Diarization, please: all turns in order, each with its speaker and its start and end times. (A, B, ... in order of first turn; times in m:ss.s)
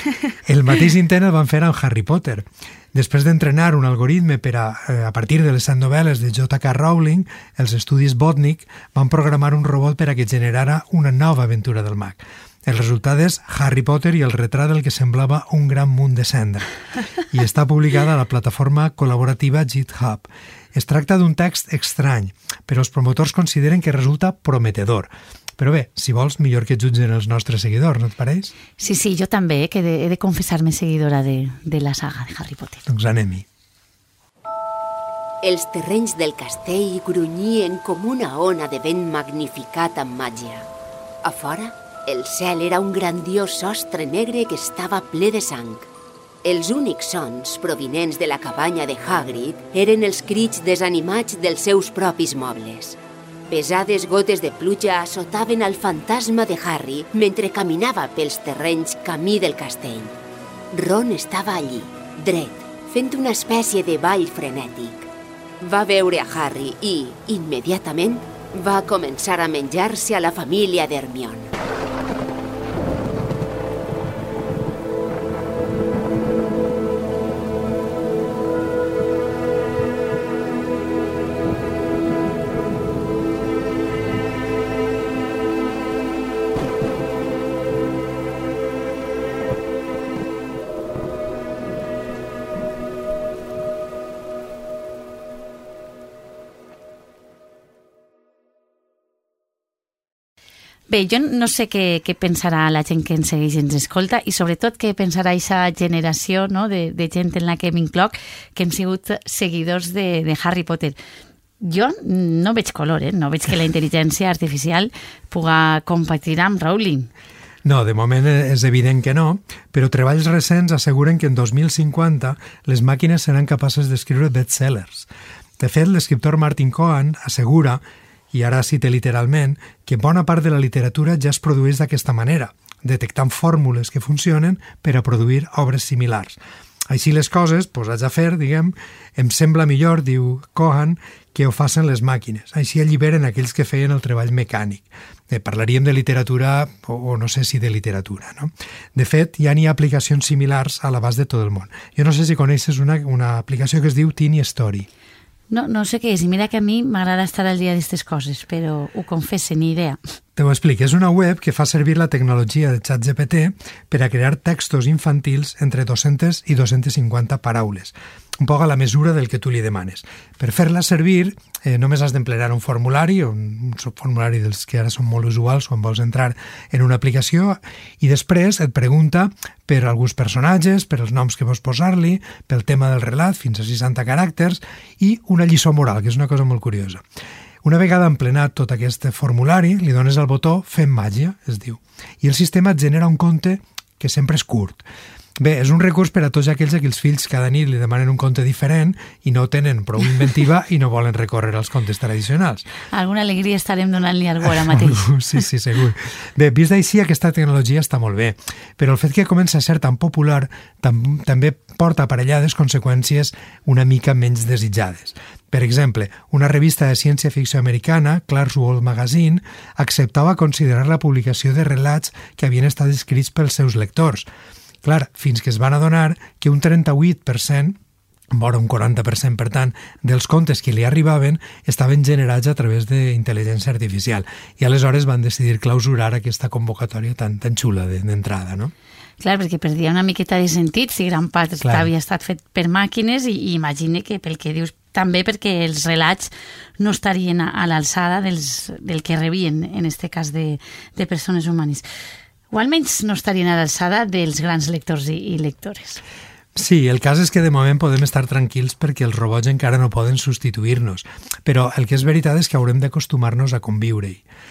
0:00.4-0:16.7 A
0:17.3-0:28.5 A
0:28.8-0:32.8 B
0:32.9-0:33.5 A
0:35.4-0:40.7 C
0:41.2-0:45.9 C
0:46.4-1:00.2 C
1:00.7-1:05.1 C
1:05.6-1:11.5 C
1:40.9-1:51.0 B
1:51.6-1:57.1 B
1:57.6-2:34.9 A
2:35.5-2:40.0 B
2:40.4-3:07.0 A
3:07.6-3:14.8 A
3:15.4-3:22.7 A
3:22.9-3:25.1 B
3:24.6-3:44.3 A
3:44.8-3:47.8 A
3:48.3-3:58.7 A
3:59.2-4:11.9 B
4:01.6-4:01.9 A
4:12.5-4:16.0 B
4:16.6-4:24.2 A